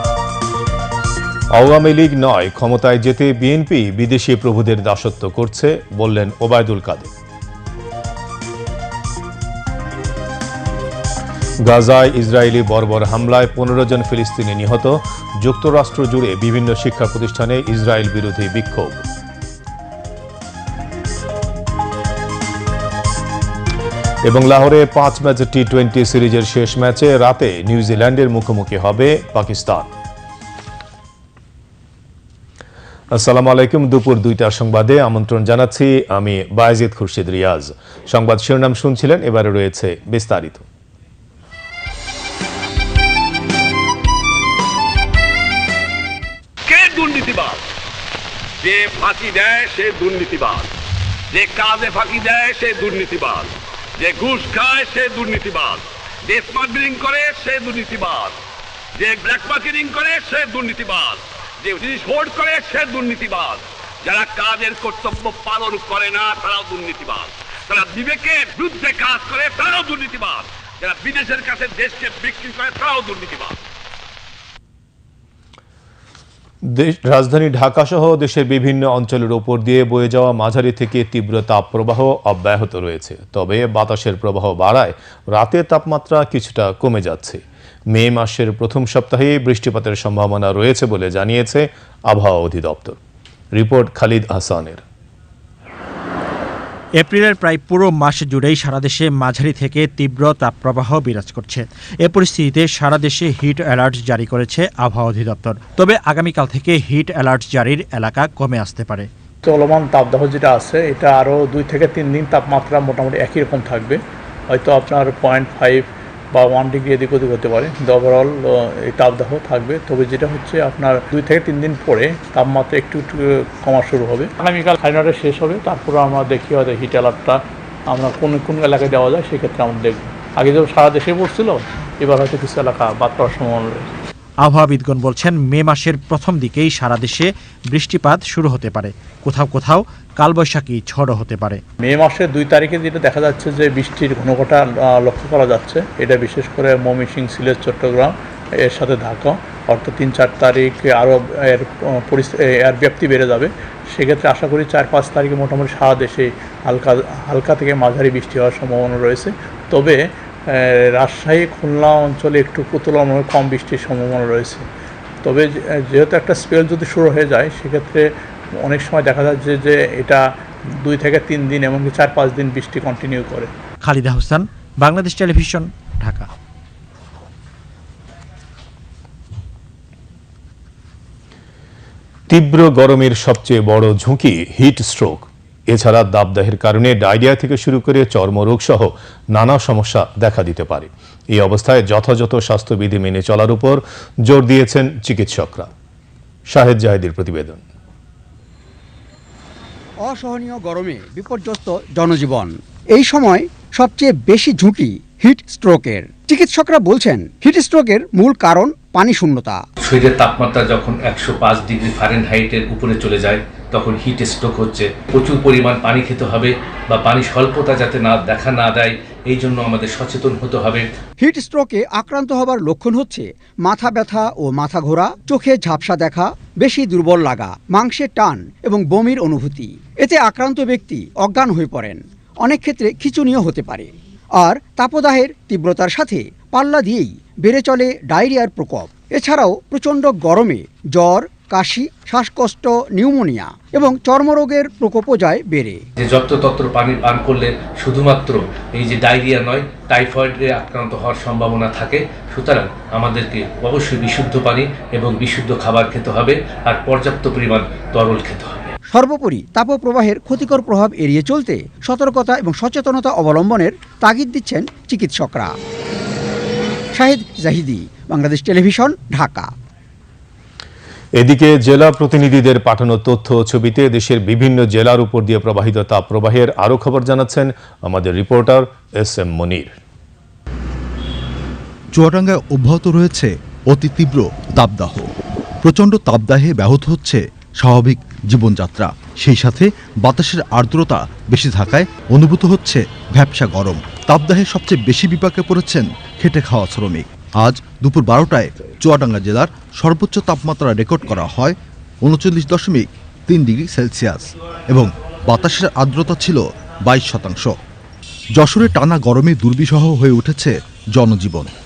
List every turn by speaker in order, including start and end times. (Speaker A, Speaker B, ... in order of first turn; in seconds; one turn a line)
Speaker A: 1.5-7.1
Speaker A: 11.6-19.0
Speaker A: 24.2-29.9
Speaker A: 33.1-40.6
Speaker B: 46.7-47.6
Speaker B: 48.6-50.7
Speaker B: 51.3-58.4
Speaker B: 59.0-73.6
Speaker A: 76.6-87.4
Speaker A: 87.9-93.0
Speaker A: 93.5-94.8
Speaker C: 97.0-109.1
Speaker D: 109.5-114.0
Speaker D: 114.5-133.9
Speaker C: 134.4-141.6
Speaker D: 141.8-164.7
Speaker D: 165.2-170.2
Speaker D: 170.8-173.5
Speaker C: 173.8-176.3
Speaker A: 182.3-195.7
Speaker A: 196.5-197.6
Speaker E: 200.0-209.6
Speaker F: 209.8-220.9
Speaker E: 221.2-245.8
Speaker F: 246.0-258.7
Speaker E: 258.9-265.6
Speaker E: 266.9-269.5
Speaker A: 271.2-279.7
Speaker G: 281.9-285.1
Speaker G: 285.6-307.5
Speaker G: 308.4-311.5